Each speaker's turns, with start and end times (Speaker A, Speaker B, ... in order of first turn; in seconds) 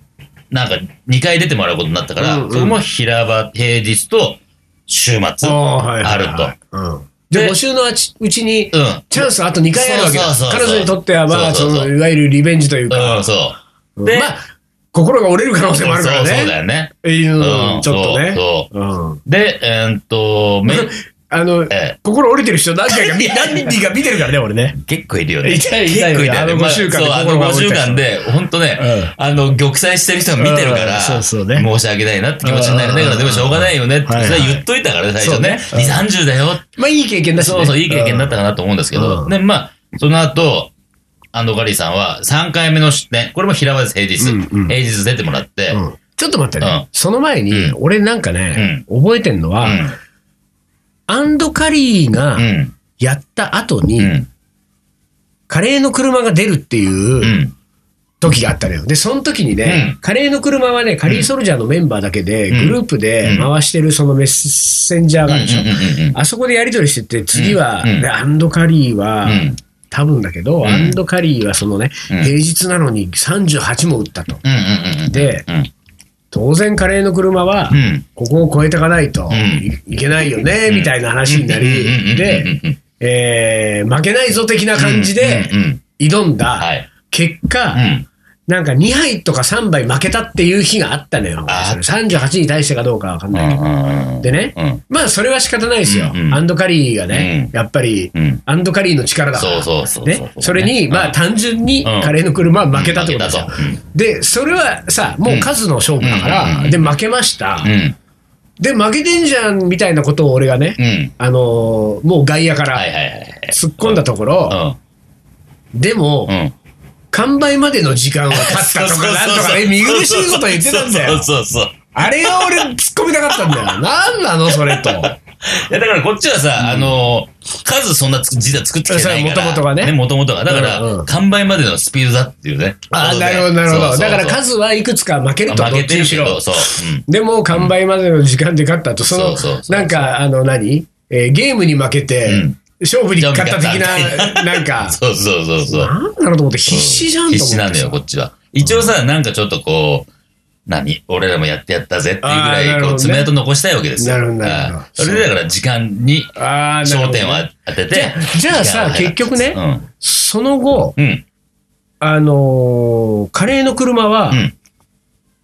Speaker A: 0.5-6.5, 7.3-7.6, 8.7-11.9, 12.9-14.3, 15.7-18.7, 19.2-20.9, 21.7-22.0, 22.9-23.8, 24.8-36.6, 37.4-40.7, 41.3-45.8, 46.6-46.9, 47.5-47.8, 48.5-48.8, 49.6-50.0, 52.4-52.8, 54.0-54.3, 57.2-57.5, 59.6-60.0, 62.5-63.5, 65.3-66.2, 67.3-68.1, 69.2-69.6, 70.6-71.0, 74.4-75.7, 77.7-78.1, 79.3-79.7, 80.7-82.8, 84.8-85.8, 86.6-86.9, 87.7-88.1, 91.5-92.1, 93.3-94.8, 95.9-96.4, 97.1-97.5, 98.2-98.4, 99.3-101.2, 101.8-102.2, 102.7-103.8, 105.2-106.9, 107.6-108.0, 110.8-111.1, 112.7-114.8, 116.3-116.5, 118.3-122.7, 124.5-134.4, 135.5-137.7, 139.1-140.1, 142.2-142.6, 143.2-145.9, 146.7-150.1, 150.7-159.9, 161.0-161.2, 164.3-164.6
Speaker B: 2.2-2.8, 5.4-13.3, 14.0-19.2, 20.7-24.8, 25.4-28.1, 28.8-29.1, 30.4-31.7, 32.4-34.6, 35.2-36.0, 36.8-38.4, 38.9-39.3, 44.2-44.8, 45.7-49.9, 51.1-52.5, 53.0-54.1, 55.5-57.4, 58.2-74.4, 75.1-75.5, 76.3-87.8, 88.5-93.6, 94.2-107.7, 108.6-112.9, 113.5-114.6, 115.8-116.4, 117.1-121.3, 121.9-125.2, 126.6-126.9, 128.9-129.9, 130.5-131.1, 132.9-145.0, 145.7-148.0, 152.2-153.3, 154.0-155.3, 156.3-161.0, 162.0-164.4